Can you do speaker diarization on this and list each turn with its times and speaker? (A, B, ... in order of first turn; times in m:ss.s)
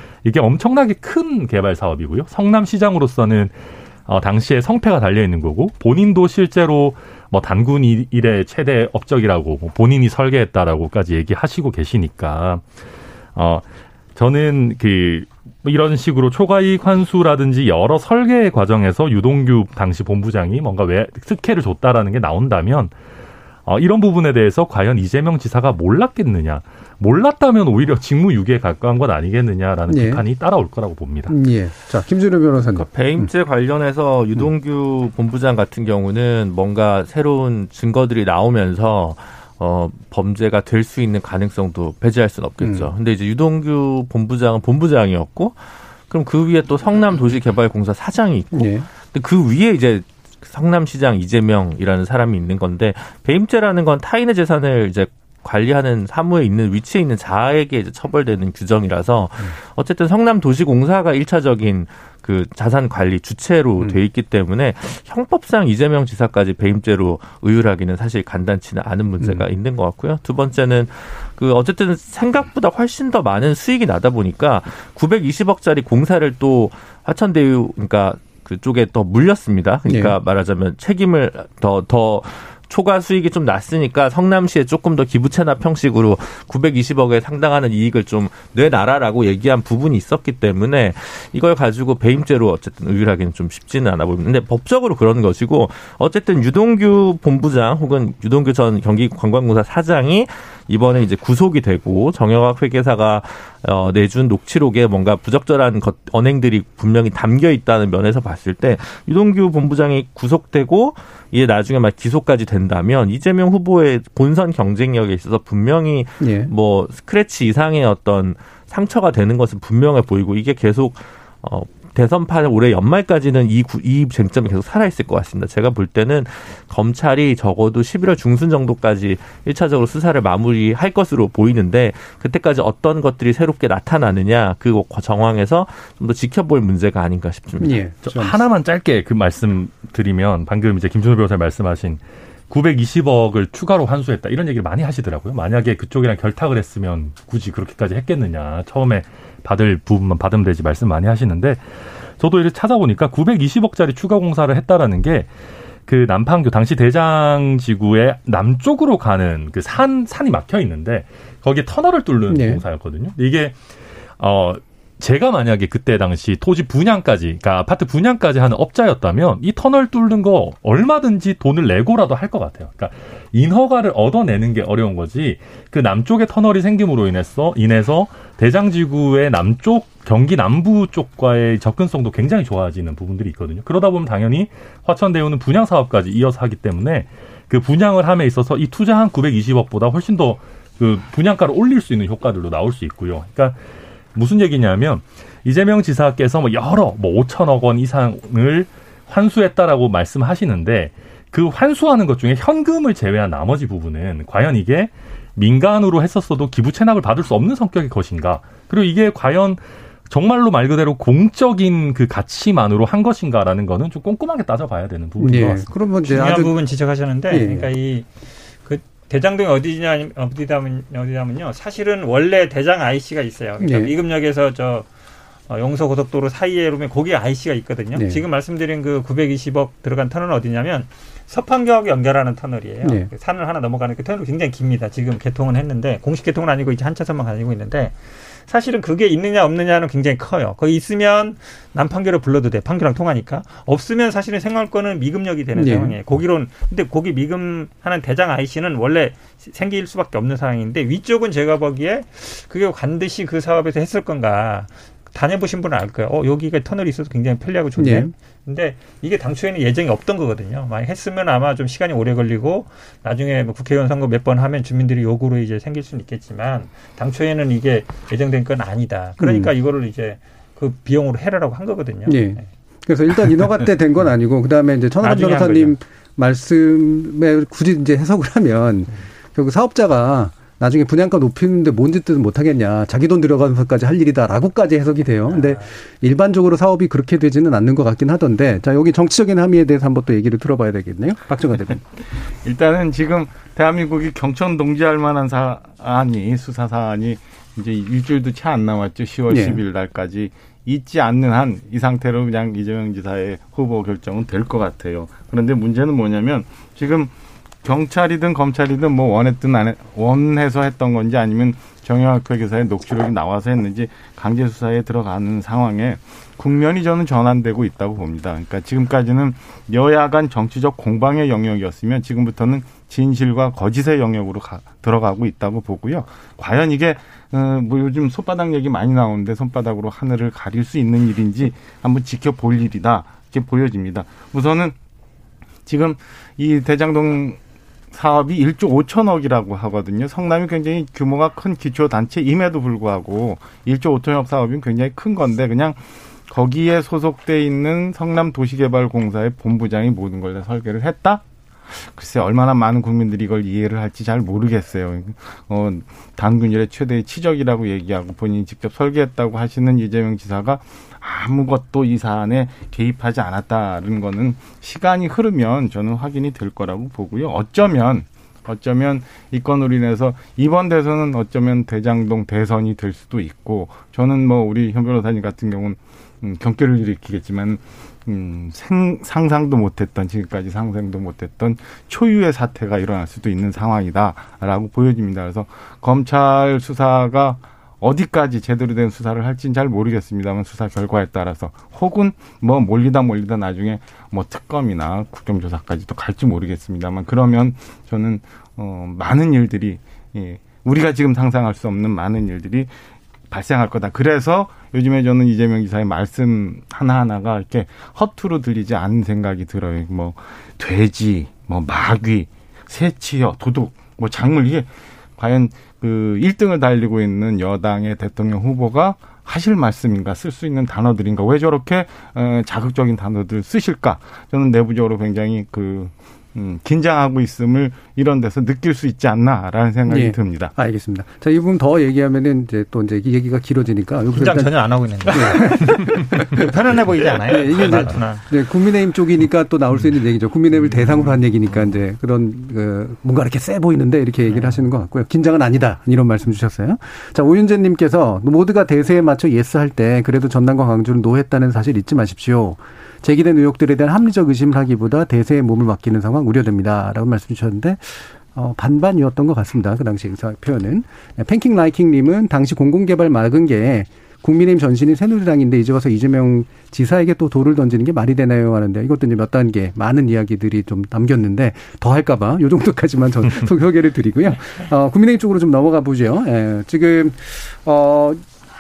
0:00.2-0:12.6 A
0:13.4-0:22.9 A
0:23.6-0:31.3 A
0:29.9-0:30.2 B
0:31.3-0:33.3 B
0:32.7-2:17.8 C
0:42.6-0:42.9 B
0:48.5-0:48.9 B
1:19.9-1:20.2 B
1:56.2-1:56.5 B
2:17.6-2:18.4 B
2:18.0-2:31.6 A
2:32.2-2:35.3 A
2:35.9-2:43.6 A
2:42.3-2:42.6 B
2:44.2-3:13.6 A
3:14.1-3:35.7 A
3:35.2-3:36.6 B
3:36.0-3:38.1 D
3:37.3-3:37.7 B
3:38.6-3:44.9 D
3:43.6-3:43.9 B
3:45.5-4:32.5 D
3:47.9-3:48.2 B
3:52.8-3:53.1 B
4:05.6-4:06.0 B
4:17.8-4:18.1 B
4:29.2-4:29.5 B
4:32.1-4:51.8 B
4:35.0-4:35.8 D
4:45.3-4:45.6 D
4:52.4-5:07.1 E
4:59.3-4:59.6 B
5:07.6-5:34.7 E
5:35.6-5:37.4 E
5:37.9-6:42.7 E
6:43.3-7:10.5 E
7:09.8-7:14.6 B
7:14.1-7:18.2 D
7:15.1-7:16.4 B
7:17.2-7:58.2 B
7:24.3-7:24.6 D